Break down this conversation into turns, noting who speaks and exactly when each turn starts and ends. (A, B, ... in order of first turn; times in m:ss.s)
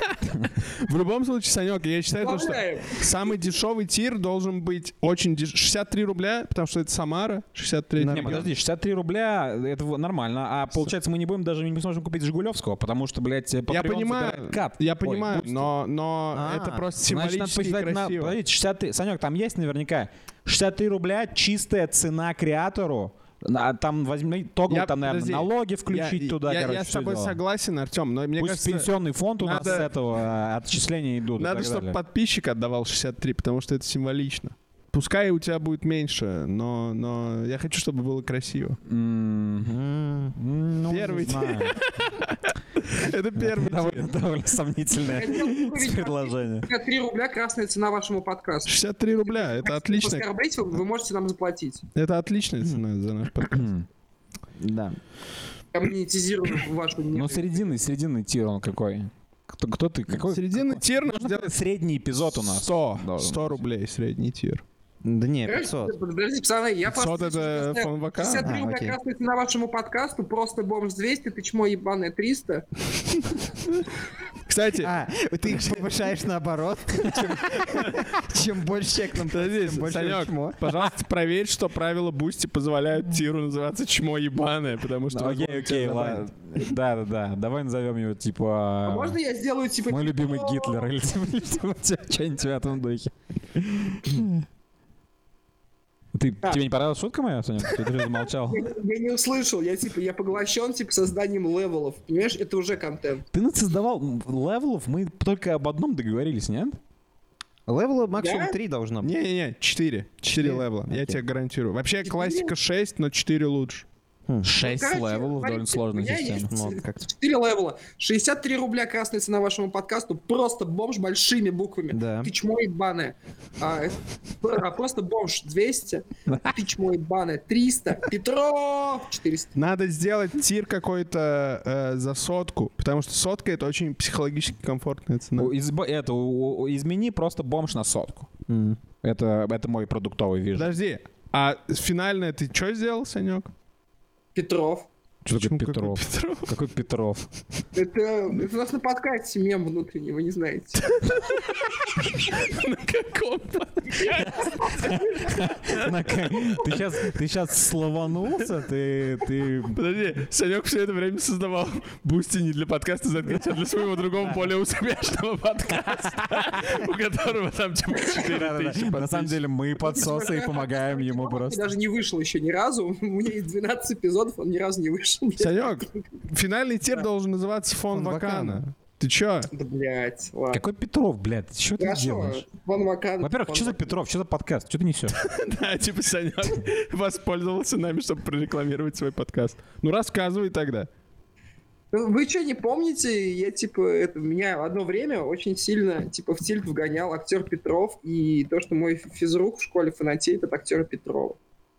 0:00.2-0:00.5 A
0:00.8-0:08.5 B
0:02.2-0:03.0 C
0:08.0-0:08.5 D
0:08.1-0:15.7 A
0:13.7-0:18.4 B
0:16.3-0:16.8 D
0:17.1-0:27.4 A
0:24.7-0:29.9 B
0:28.4-0:32.0 A
0:31.4-0:38.8 B
0:38.8-0:39.8 A
0:39.6-0:40.4 D
0:40.4-0:41.9 A
0:40.9-0:41.7 D
0:40.9-0:44.1 B
0:43.4-0:46.7 A
0:45.0-0:51.8 C
0:48.6-0:50.3 B
0:51.9-0:53.7 B
0:53.5-0:53.9 A
0:54.6-0:55.0 D
0:55.7-0:57.7 C
0:57.1-1:03.6 A
1:00.1-1:01.5 B
1:02.3-1:04.6 B
1:05.0-1:05.9 D
1:05.5-1:12.6 C
1:06.8-1:08.5 B
1:08.4-1:09.0 D
1:14.5-1:14.9 B
1:14.8-1:20.6 D
1:17.1-1:17.3 A
1:19.2-1:26.2 B
1:25.1-1:29.2 A
1:25.7-1:26.2 D
1:28.8-1:30.8 C
1:29.9-1:34.4 A
1:36.1-1:38.7 A
1:38.5-1:43.2 C
1:43.3-1:46.8 A
1:47.7-1:49.1 D
1:48.2-1:48.6 C
1:49.0-1:53.8 B
1:50.3-1:51.2 D
1:52.0-1:52.5 C
1:54.3-1:54.5 D
1:54.4-1:56.5 A
1:54.6-2:09.5 C
1:56.4-1:57.0 D
2:01.9-2:02.3 D
2:09.5-2:15.5 B
2:15.4-2:18.3 A
2:18.5-2:18.8 D
2:19.0-2:20.7 A
2:20.5-2:23.5 B
2:24.3-2:24.9 C
2:25.2-2:27.3 A
2:25.3-2:26.5 B
2:27.7-2:30.9 C
2:31.1-2:31.4 B
2:32.0-2:35.9 B
2:34.2-2:35.1 C
2:34.8-2:39.8 A
2:39.7-2:49.4 B
2:46.0-2:46.4 A
2:48.1-2:51.6 A
2:49.8-2:56.0 C
2:55.4-2:59.5 B
2:57.9-2:58.6 D
2:59.5-3:00.6 C
3:00.5-3:02.4 A
3:01.8-3:03.9 C
3:03.2-3:05.2 A
3:05.2-3:10.9 B
3:11.9-3:21.4 C